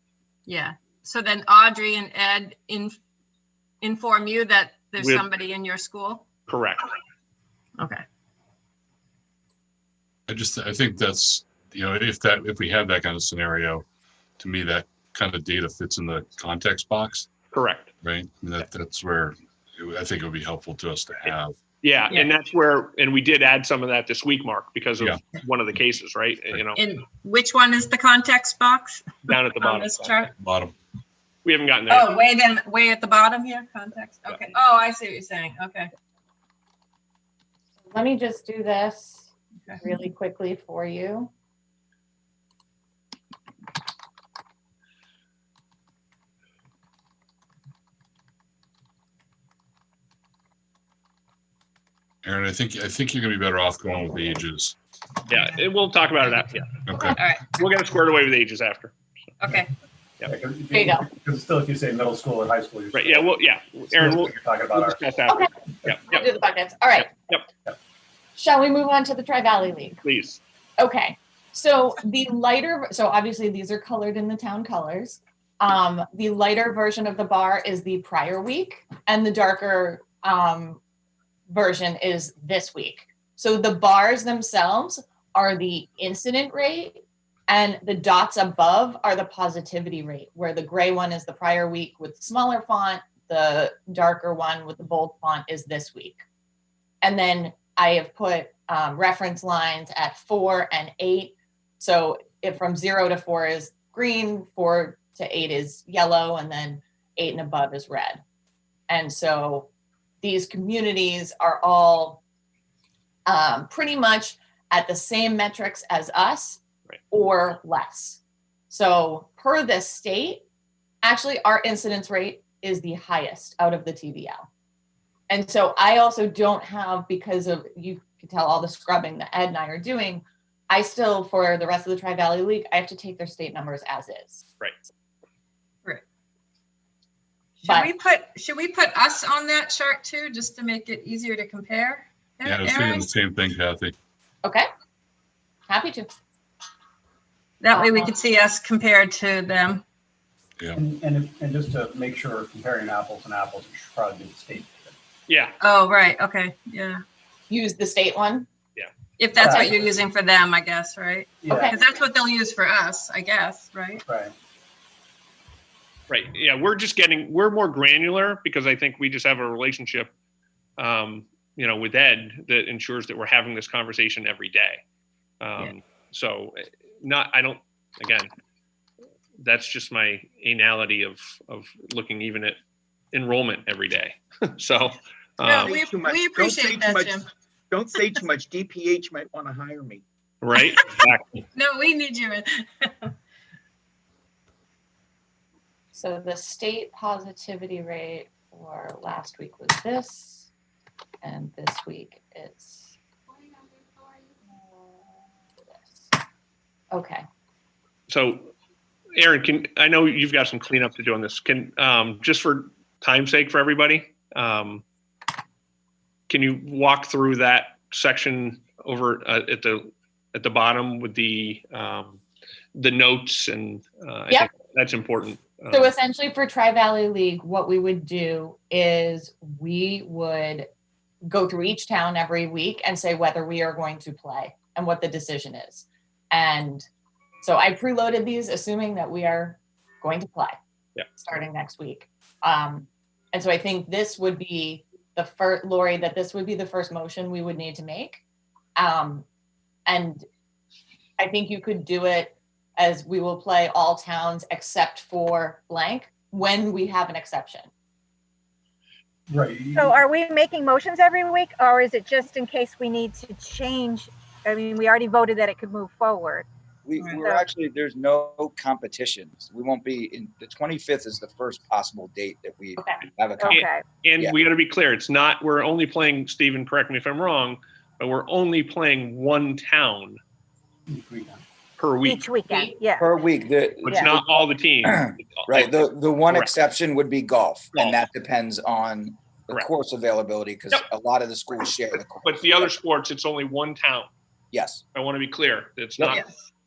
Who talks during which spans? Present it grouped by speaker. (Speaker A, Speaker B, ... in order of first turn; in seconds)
Speaker A: 0.5-3.0, 3.8-6.3, 7.8-8.0, 26.8-30.3, 31.9-35.9, 57.1-57.5, 59.4-59.7, 137.6-143.1, 147.6-149.8, 155.6-157.0, 159.2-164.0, 185.4-187.3, 191.5-193.1
Speaker B: 5.0-5.2, 6.5-6.8, 17.5-17.9, 21.8-26.8, 29.2-30.2, 31.4-32.1, 55.3-56.7, 57.5-58.9, 62.9-66.3, 67.0-67.5, 70.0-70.4, 155.3-155.6, 166.1-170.1, 170.8-174.8, 175.4-178.3, 179.4-182.6, 183.1-185.7, 190.4-191.4, 208.1-208.5, 209.2-214.8, 216.3-222.2, 222.7-225.9, 273.5-280.2, 281.8-282.3, 283.8-286.5, 287.7-288.0, 292.2-294.1, 294.9-296.2
Speaker C: 10.3-13.8, 14.4-17.3, 18.0-21.6, 30.4-30.7, 52.2-54.8, 56.9-57.2, 142.4-143.9
Speaker D: 37.9-39.3, 39.8-41.3, 60.7-61.1, 65.3-67.1, 68.3-70.0, 70.8-80.8, 81.5-96.2, 97.0-108.2, 108.9-109.7, 110.2-112.2, 113.2-120.4, 121.0-124.5, 125.3-134.5, 137.6-137.9, 145.7-146.1, 147.7-148.1, 157.5-158.5, 161.5-161.8, 195.9-200.5, 201.2-203.0, 204.4-206.1, 206.9-207.2, 225.7-230.7, 231.2-236.8, 237.4-240.6, 241.1-248.2, 248.8-249.2, 249.8-250.2, 251.2-257.7, 282.5-282.8
Speaker E: 60.2-63.4, 63.9-65.1, 150.7-154.9, 159.4-159.8, 161.4-161.8, 164.1-164.3, 259.3-260.0, 280.9-281.4
Speaker F: 185.6-190.0
Speaker G: 259.7-266.5, 273.4-273.8, 282.0-283.1
Speaker H: 266.8-273.7, 283.0-292.7, 294.5-294.8